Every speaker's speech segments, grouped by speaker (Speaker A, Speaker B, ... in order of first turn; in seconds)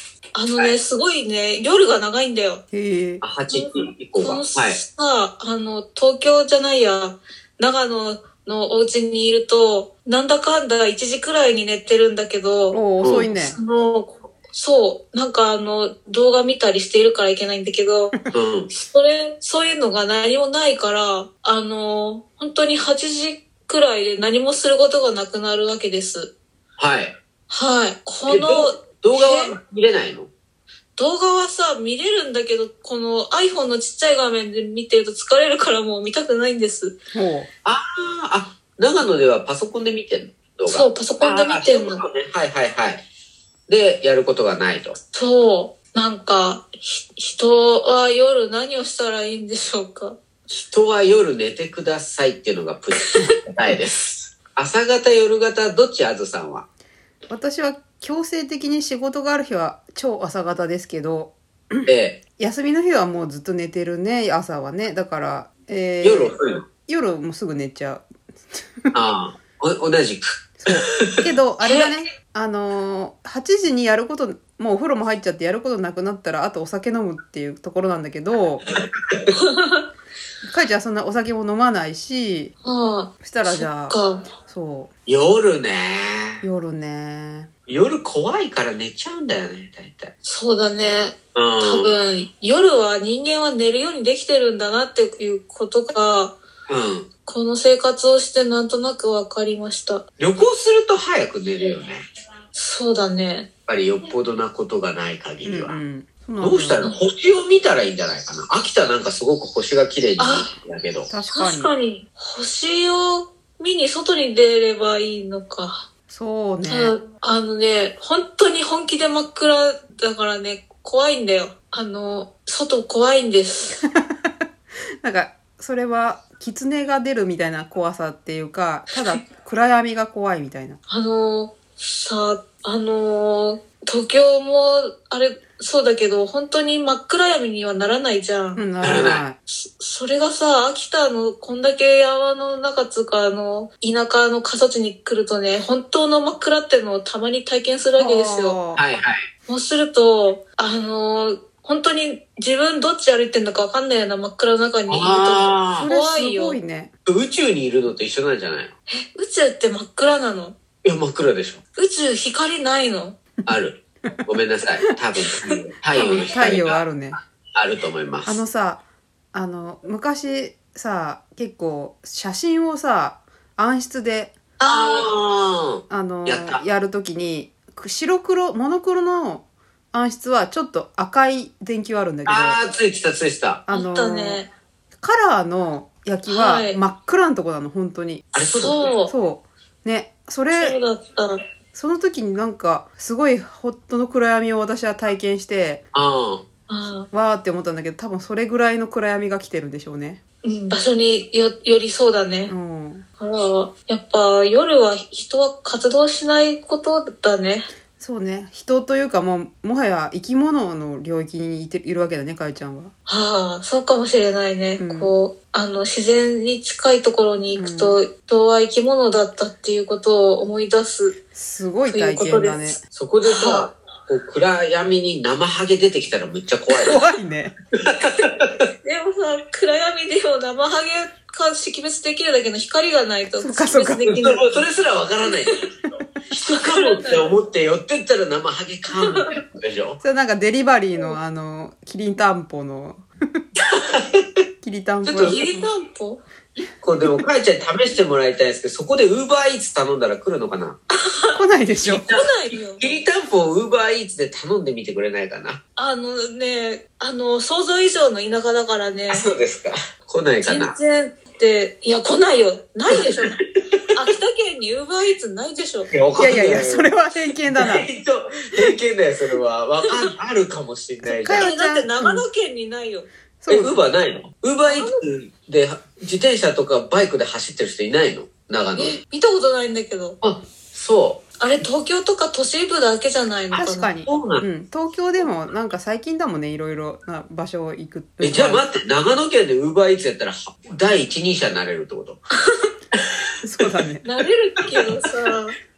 Speaker A: 0.3-2.6, 3.5-12.8, 13.4-18.1, 18.7-26.3, 27.5-29.5, 31.0-37.0, 40.7-42.0, 45.1-50.2, 71.6-71.9, 79.3-79.8, 82.6-84.3, 90.2-96.4, 97.3-100.0, 102.5-103.5, 110.2-110.5, 111.3-115.9, 116.7-123.8, 130.9-139.1, 139.7-148.6, 149.5-156.6, 158.9-160.6, 161.8-163.2, 165.5-166.2, 174.6-175.1, 183.7-184.5, 186.3-186.8, 188.5-189.1, 190.5-191.4, 196.7-197.1, 200.4-202.5, 203.2-207.7, 213.1-221.2, 221.8-223.7, 228.8-234.6, 236.5-237.4, 238.9-239.3, 245.2-246.2, 250.9-251.4, 252.1-252.8, 255.8-259.2, 260.4-263.4, 263.9-265.9, 271.3-273.1, 274.6-275.0, 278.8-280.2, 281.4-283.9, 294.0-295.6
Speaker B: 2.7-3.2, 12.7-13.6, 37.1-37.5, 57.3-66.3, 66.9-68.1, 70.6-78.7, 80.5-82.5, 83.2-84.9, 86.4-87.5, 105.5-106.9, 111.1-111.7, 116.1-116.9, 123.9-124.3, 125.0-130.8, 138.6-139.4, 148.0-148.8, 155.8-156.9, 165.9-167.2, 168.3-174.4, 175.9-182.6, 183.7-184.4, 185.0-188.3, 189.1-190.8, 191.7-195.8, 197.1-200.2, 202.5-203.1, 208.0-212.9, 214.8-215.1, 217.5-218.0, 221.3-222.8, 226.8-227.5, 233.4-234.1, 240.0-243.1, 244.6-245.7, 251.3-252.1, 266.2-267.9, 271.1-272.2, 273.4-273.8, 283.6-288.6, 293.4-294.0
Speaker C: 3.2-4.8, 13.0-13.3, 18.3-18.7, 26.8-27.1, 28.3-30.3, 37.6-43.0, 43.7-45.0, 50.5-56.7, 61.9-62.2, 66.0-66.6, 68.9-71.1, 78.8-79.3, 85.1-86.4, 87.7-90.1, 91.3-92.0, 96.7-97.1, 100.2-102.0, 103.7-105.8, 106.4-111.1, 138.8-139.2, 148.8-149.2, 154.9-155.9, 157.1-158.7, 160.8-161.6, 163.5-166.8, 167.6-168.4, 174.7-176.6, 182.3-183.6, 188.3-188.9, 195.9-196.4, 222.9-227.0, 227.8-228.6, 234.0-235.6, 236.3-240.0, 243.7-244.2, 245.1-245.4, 246.8-250.8, 251.8-252.2, 252.8-255.6, 259.1-260.8, 265.9-266.9, 267.5-271.5, 273.5-279.0, 280.2-281.2, 284.1-284.4, 288.2-292.2